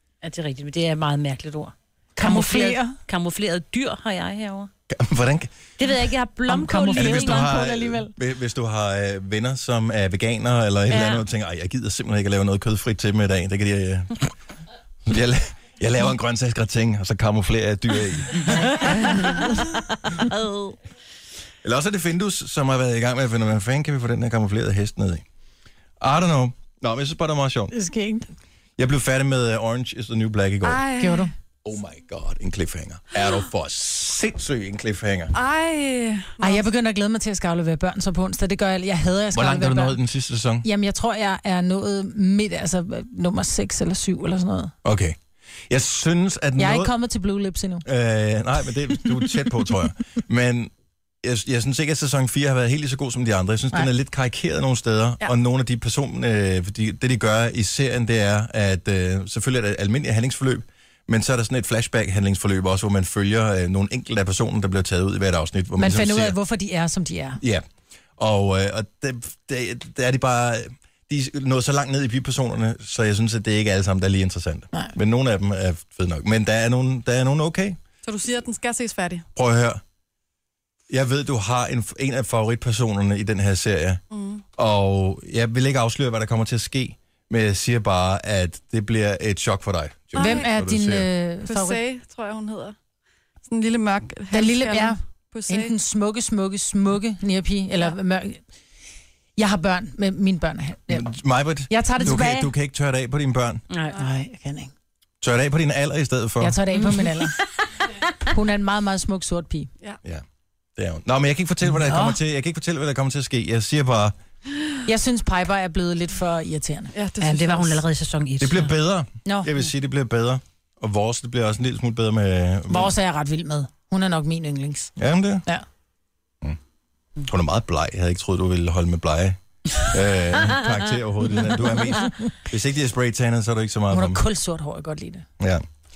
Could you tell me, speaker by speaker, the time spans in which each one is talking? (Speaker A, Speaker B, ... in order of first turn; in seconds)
Speaker A: 0.2-4.7, 5.8-7.5, 10.9-11.2, 18.4-20.8, 103.7-104.0, 106.7-107.5, 111.9-112.1, 117.2-118.7
Speaker B: 2.2-3.0, 6.5-8.1, 27.7-28.3, 31.0-31.3, 36.4-40.0, 40.6-44.7, 46.6-47.9, 65.8-67.4, 90.2-91.8, 94.3-98.4, 99.4-101.1, 101.7-102.5, 103.9-104.7, 106.4-107.4, 108.3-109.7, 114.8-116.9, 119.2-119.5, 122.7-124.9, 133.9-135.3
Speaker C: 4.9-5.5, 6.9-14.3, 15.1-19.0, 21.6-25.2, 26.0-27.8, 28.8-30.8, 31.6-35.3, 39.3-40.7, 44.9-45.2, 45.7-46.9, 47.9-50.7, 51.2-66.4, 68.2-77.8, 79.3-79.8, 80.9-84.0, 84.6-91.1, 100.9-103.6, 105.2-106.6, 110.8-114.2, 118.4-122.9, 125.0-125.5, 127.3-134.2
Speaker D: 30.6-31.3, 35.3-36.7, 78.0-79.2, 84.1-84.4, 90.2-90.5, 91.5-92.8, 93.5-95.7, 116.9-117.8